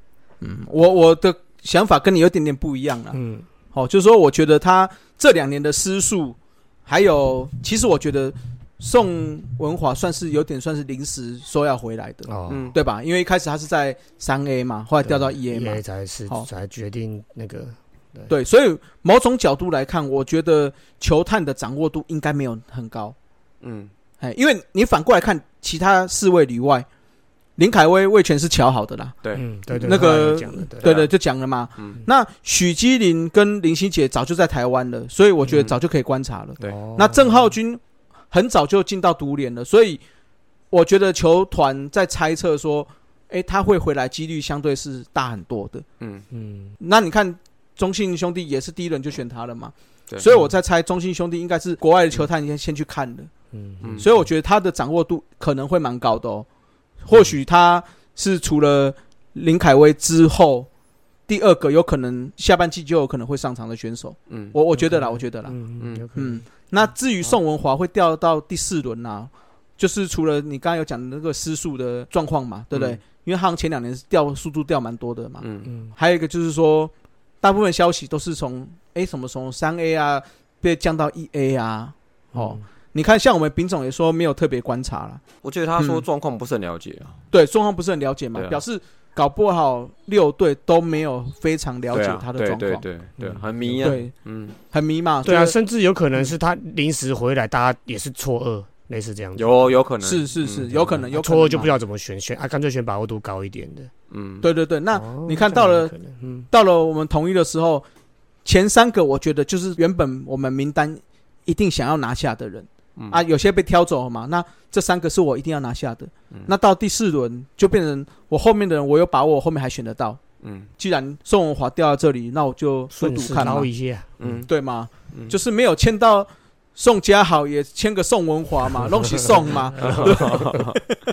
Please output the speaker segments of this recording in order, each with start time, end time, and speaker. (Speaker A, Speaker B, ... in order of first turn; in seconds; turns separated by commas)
Speaker A: 0.4-3.2, Speaker B: 3.1-3.5, Speaker A: 3.7-16.5, Speaker B: 12.3-12.7, Speaker C: 12.5-12.8, Speaker B: 15.0-18.3, Speaker A: 18.3-23.1, Speaker C: 23.6-23.9, Speaker A: 24.2-26.9, Speaker A: 27.6-29.1, Speaker B: 29.3-30.9, Speaker A: 29.8-40.0, Speaker C: 30.8-31.1, Speaker B: 36.6-37.4, Speaker A: 40.7-45.8, Speaker C: 46.0-46.2, Speaker B: 46.3-46.7, Speaker A: 46.8-53.3, Speaker B: 53.5-54.1, Speaker A: 54.0-56.5, Speaker A: 57.0-60.7, Speaker A: 61.3-65.6, Speaker C: 64.3-64.5, Speaker B: 64.8-66.4, Speaker C: 65.8-66.1, Speaker A: 66.1-85.2, Speaker C: 72.7-73.0, Speaker C: 75.4-75.7, Speaker B: 75.7-75.9, Speaker B: 82.3-82.6, Speaker C: 85.4-87.2, Speaker A: 85.8-86.0, Speaker A: 87.3-92.8, Speaker C: 88.3-88.6, Speaker C: 91.9-94.6, Speaker B: 93.2-93.9, Speaker A: 93.8-94.1, Speaker A: 94.7-95.5, Speaker B: 95.2-99.6, Speaker C: 99.3-100.8, Speaker A: 100.0-101.7, Speaker B: 101.0-103.9, Speaker C: 104.1-104.5, Speaker A: 104.4-105.9, Speaker B: 104.9-106.5, Speaker A: 106.5-107.8, Speaker A: 108.4-120.2, Speaker C: 120.4-120.7, Speaker A: 120.8-123.7, Speaker B: 122.9-124.4, Speaker C: 124.2-124.5, Speaker A: 124.5-130.8, Speaker B: 128.8-130.7, Speaker C: 129.8-130.8